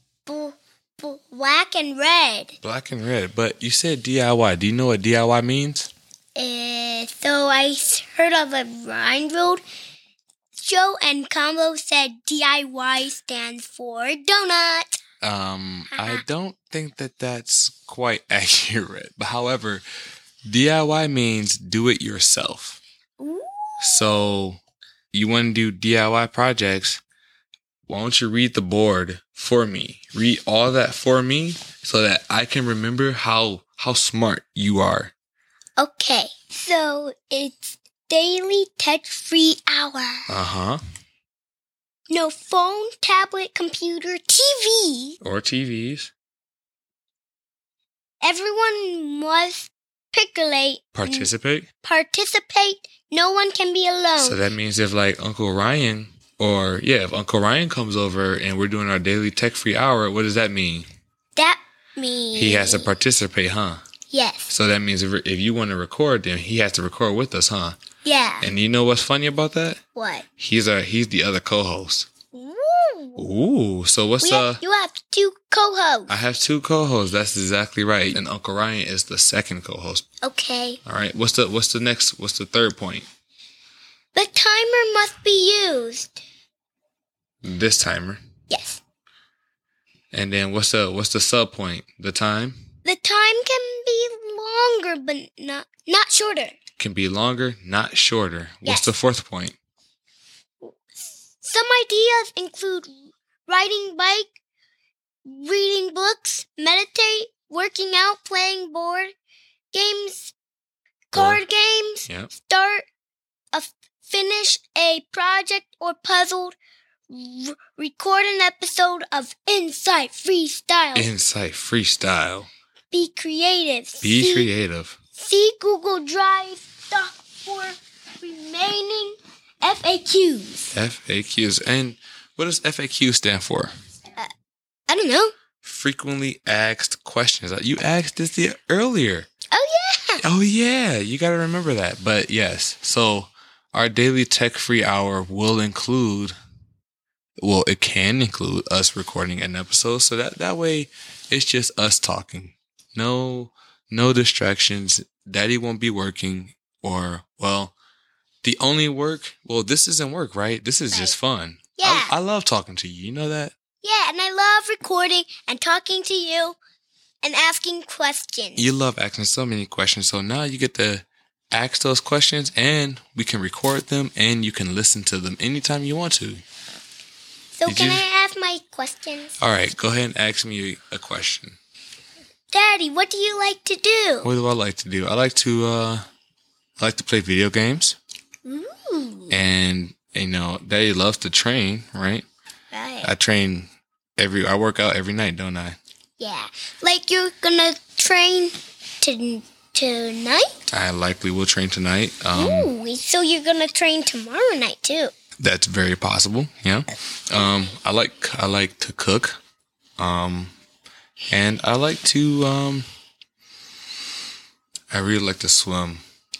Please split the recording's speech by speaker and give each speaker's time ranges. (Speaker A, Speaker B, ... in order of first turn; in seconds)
Speaker A: 0.2-2.6, 6.3-9.6, 10.6-15.0, 15.9-16.2, 23.2-24.0, 35.8-40.3, 42.1-45.2, 48.2-54.4, 61.4-62.9, 64.1-64.5, 68.0-68.5, 69.9-70.2, 72.3-73.3, 74.2-76.1, 80.2-80.8, 84.1-86.2, 88.5-88.8, 92.8-96.5, 98.6-98.9, 101.4-104.3, 105.2-109.1, 109.7-110.3, 111.1-112.9, 113.5-116.5, 117.1-121.1, 122.9-124.5, 125.2-130.8, 134.9-135.3, 139.5-140.2, 161.8-162.2, 163.8-166.6, 167.2-168.7, 177.6-179.3, 182.5-184.3, 188.4-189.4, 192.7-193.1, 196.2-200.6, 202.3-205.1
Speaker B: 2.6-5.9, 15.2-19.8, 20.4-22.8, 23.8-24.6, 25.1-27.0, 27.9-35.1, 40.3-40.8, 45.2-46.1, 50.9-51.7, 54.2-60.9, 62.3-63.8, 64.5-67.8, 68.4-69.8, 70.4-72.1, 73.2-74.6, 76.1-80.0, 80.8-83.1, 87.4-88.2, 90.1-92.6, 96.8-99.5, 111.1-111.4, 120.9-122.5, 124.0-125.0, 130.7-133.7, 135.6-139.3, 140.2-146.3, 147.4-157.7, 158.4-163.5, 168.6-176.4, 177.7-178.1, 179.4-181.6, 184.2-186.0, 186.8-187.9, 189.3-192.2, 193.0-195.8, 200.7-202.7, 205.4-209.4, 210.0-210.5, 211.3-212.8, 214.9-216.0